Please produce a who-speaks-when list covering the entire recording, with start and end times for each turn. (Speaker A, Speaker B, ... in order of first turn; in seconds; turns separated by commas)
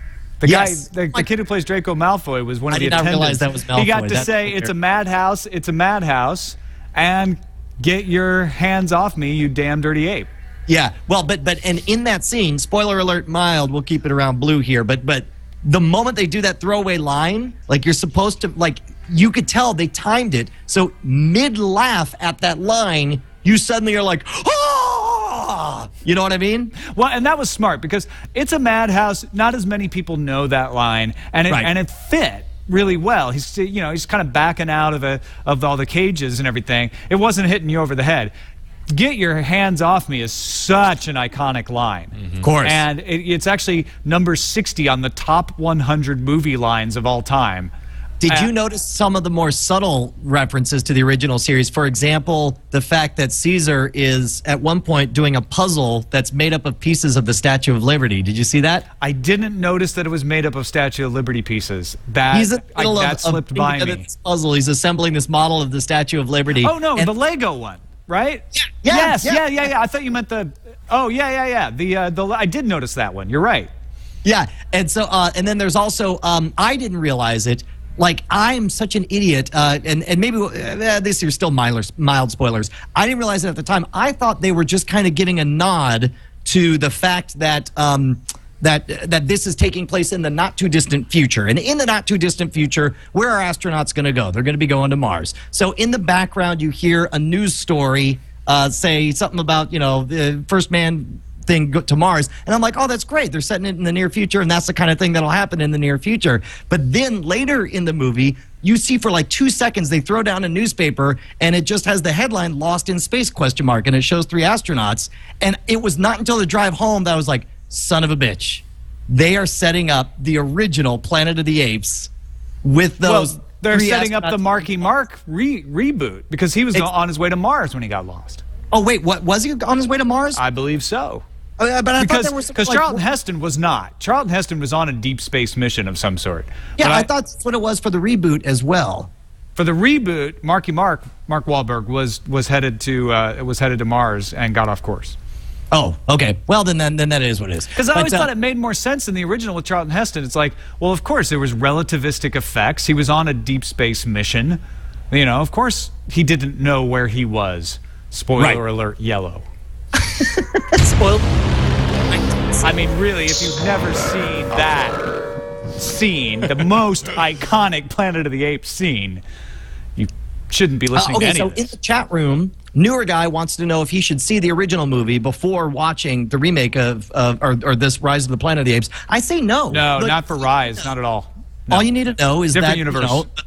Speaker A: 0.4-10.3, Speaker B: 0.4-1.3, Speaker B: 2.7-4.7, Speaker B: 10.7-26.7, Speaker A: 26.8-38.3, Speaker A: 38.9-47.7, Speaker B: 42.4-42.8, Speaker B: 48.2-58.9, Speaker A: 59.0-64.0, Speaker B: 62.3-67.1, Speaker A: 66.6-73.7, Speaker B: 68.5-69.4, Speaker B: 74.2-122.1, Speaker B: 122.6-124.4, Speaker A: 123.0-128.4, Speaker B: 128.7-130.4, Speaker A: 130.3-131.2, Speaker B: 131.6-133.0, Speaker A: 132.0-137.1, Speaker B: 136.8-139.1, Speaker A: 139.6-145.2, Speaker B: 145.7-148.3, Speaker A: 147.8-154.6, Speaker A: 155.1-159.5, Speaker B: 160.0-161.3, Speaker B: 162.1-162.8, Speaker A: 162.6-165.1, Speaker A: 165.8-169.2, Speaker A: 170.0-171.7, Speaker B: 170.9-180.9, Speaker A: 179.7-181.9, Speaker B: 181.7-183.3, Speaker A: 182.5-183.3